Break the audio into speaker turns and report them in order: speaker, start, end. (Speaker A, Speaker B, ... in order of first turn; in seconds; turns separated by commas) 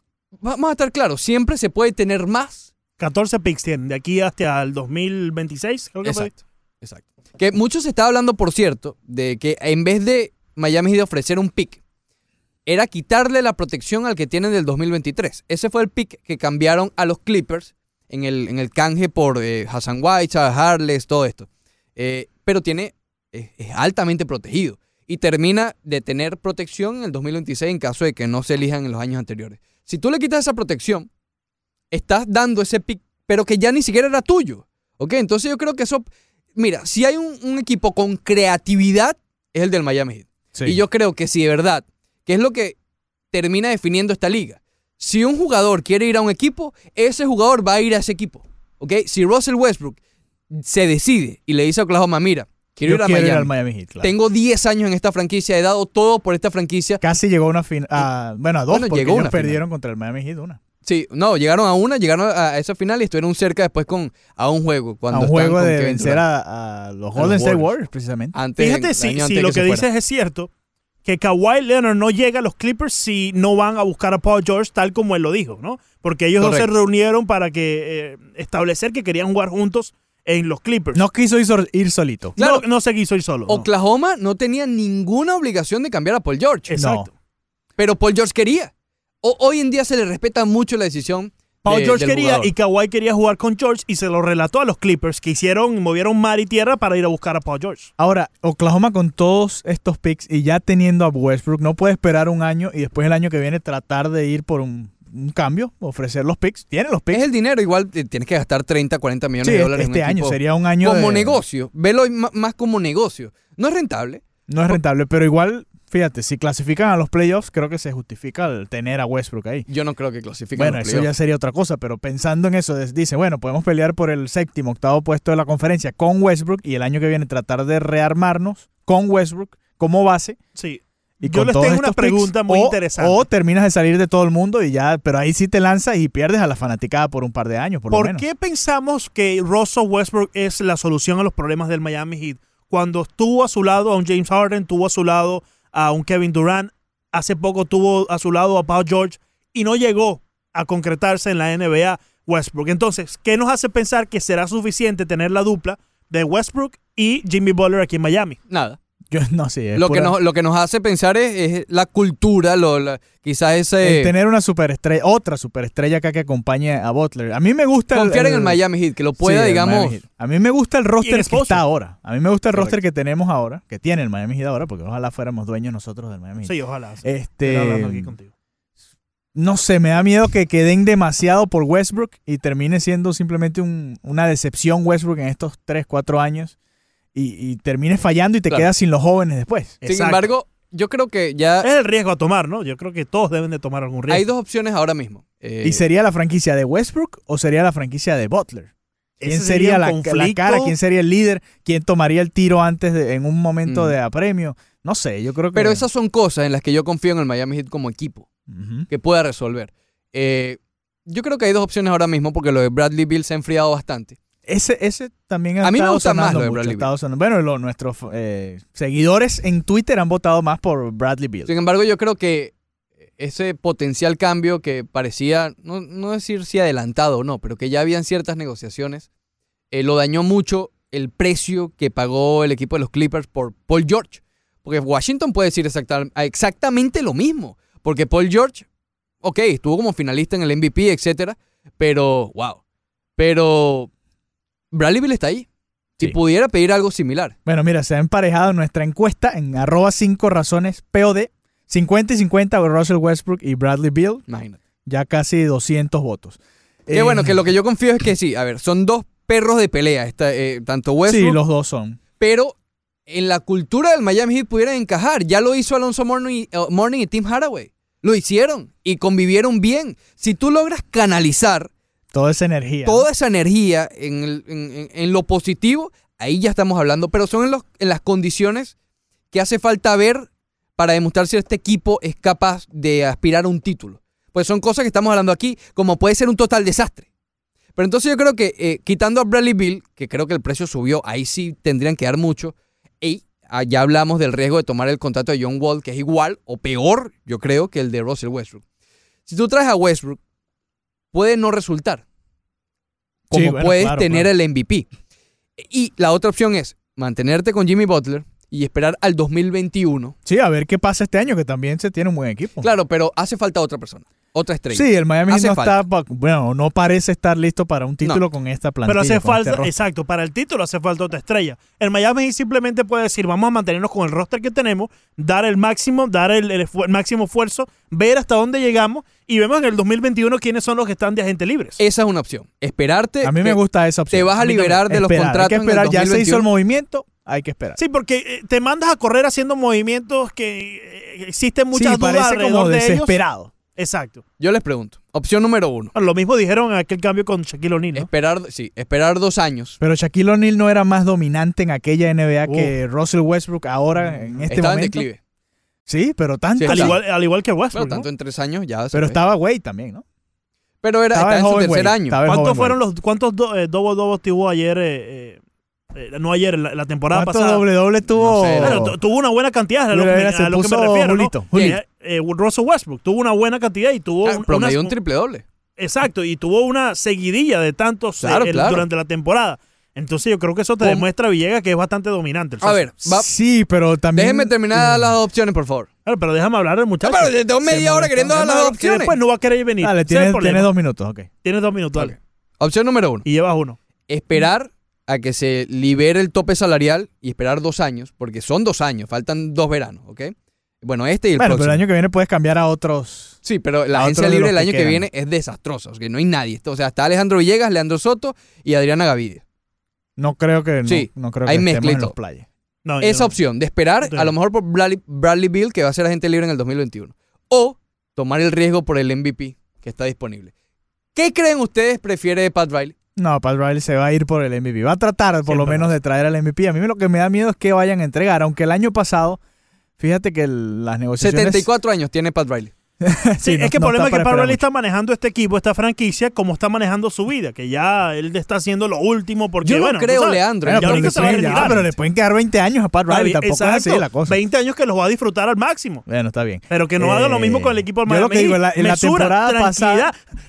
Speaker A: 0.4-2.7, Speaker B: 3.0-6.3, Speaker A: 6.0-11.8, Speaker A: 12.7-31.1, Speaker A: 31.9-42.8, Speaker C: 40.5-40.8, Speaker A: 43.3-50.0, Speaker A: 50.5-53.5, Speaker C: 52.8-54.1, Speaker A: 54.0-57.0, Speaker C: 57.0-60.6, Speaker A: 58.7-59.6, Speaker A: 60.8-66.2, Speaker C: 65.1-68.4, Speaker A: 67.2-67.7, Speaker A: 68.3-69.9, Speaker B: 68.6-70.5, Speaker B: 71.0-81.0, Speaker A: 76.4-76.7, Speaker C: 80.9-82.4, Speaker A: 82.4-82.7, Speaker B: 82.4-83.7, Speaker A: 83.5-86.7, Speaker B: 86.7-87.1, Speaker C: 86.8-87.1, Speaker A: 87.8-88.7, Speaker A: 89.2-92.5, Speaker B: 91.6-97.9, Speaker C: 98.0-107.2, Speaker A: 107.1-114.8, Speaker C: 109.4-111.4, Speaker C: 114.5-119.7, Speaker A: 119.7-121.1, Speaker C: 120.6-130.4, Speaker B: 130.6-133.2, Speaker C: 131.2-138.2, Speaker B: 137.9-158.4, Speaker A: 158.5-158.8, Speaker C: 159.1-160.1, Speaker A: 159.8-164.1, Speaker C: 163.8-168.6, Speaker A: 167.9-170.0, Speaker C: 169.2-178.1, Speaker B: 171.0-171.6, Speaker B: 176.4-178.3, Speaker C: 179.3-186.6, Speaker C: 187.1-189.8, Speaker B: 189.8-190.3, Speaker A: 189.8-191.7, Speaker B: 191.6-194.2, Speaker A: 194.1-195.8, Speaker C: 195.6-198.7, Speaker B: 199.2-200.7, Speaker C: 199.2-205.9, Speaker A: 203.7-203.9, Speaker A: 205.5-208.3, Speaker C: 208.5-208.9, Speaker A: 208.9-214.2, Speaker C: 214.5-221.5, Speaker A: 215.6-216.9, Speaker A: 221.5-222.5, Speaker A: 223.2-229.1, Speaker A: 229.7-238.7, Speaker A: 239.2-242.6, Speaker A: 243.2-243.9, Speaker A: 244.7-245.5, Speaker A: 246.0-247.3, Speaker C: 247.5-254.2, Speaker A: 254.3-254.6, Speaker C: 254.9-257.4, Speaker A: 256.9-261.4, Speaker C: 261.1-262.0, Speaker A: 262.2-262.5, Speaker A: 263.1-271.7, Speaker C: 272.1-273.1, Speaker A: 272.9-278.7, Speaker A: 279.3-287.1, Speaker A: 287.8-298.6, Speaker A: 299.3-300.2, Speaker A: 301.1-302.0, Speaker A: 303.3-304.9, Speaker C: 303.3-304.3, Speaker A: 305.6-310.1, Speaker C: 310.3-312.7, Speaker A: 312.6-315.8, Speaker C: 314.7-319.7, Speaker B: 318.9-331.8, Speaker A: 331.8-333.6, Speaker C: 333.2-337.8, Speaker A: 334.1-336.5, Speaker B: 337.8-343.2, Speaker C: 341.7-343.5, Speaker B: 343.8-344.2, Speaker A: 344.4-345.9, Speaker B: 345.9-348.1, Speaker A: 347.9-349.8, Speaker C: 349.8-355.1, Speaker B: 352.5-352.7, Speaker B: 354.0-354.4, Speaker A: 354.5-355.2, Speaker C: 355.9-357.0, Speaker A: 356.6-357.0, Speaker B: 356.7-358.1, Speaker A: 357.7-359.2, Speaker C: 358.9-360.0, Speaker A: 360.8-362.2, Speaker C: 361.1-362.8, Speaker B: 362.2-365.4, Speaker B: 365.9-367.6, Speaker C: 367.1-368.9, Speaker A: 368.2-368.8, Speaker B: 368.6-374.9, Speaker C: 369.9-371.8, Speaker A: 371.5-371.8, Speaker A: 374.2-375.4, Speaker B: 375.8-382.9, Speaker A: 378.2-378.9, Speaker A: 380.8-381.1, Speaker A: 382.6-383.3, Speaker C: 383.1-385.2, Speaker A: 384.1-385.9, Speaker B: 386.1-390.7, Speaker A: 387.0-389.2, Speaker C: 389.8-391.3, Speaker B: 391.4-392.1, Speaker A: 391.9-393.3, Speaker B: 393.2-393.8, Speaker A: 394.1-401.8, Speaker C: 401.4-403.4, Speaker A: 403.4-409.4, Speaker C: 403.9-405.1, Speaker C: 410.2-412.5, Speaker A: 410.9-412.1, Speaker B: 412.9-413.4, Speaker A: 413.0-420.5, Speaker B: 414.0-414.3, Speaker A: 421.1-422.9, Speaker C: 423.2-429.4, Speaker B: 425.5-425.9, Speaker C: 430.0-431.7, Speaker A: 431.2-432.7, Speaker C: 433.0-434.6, Speaker B: 433.4-441.9, Speaker A: 439.6-441.9, Speaker C: 440.6-444.4, Speaker B: 443.1-446.1, Speaker C: 446.1-450.1, Speaker B: 446.7-450.2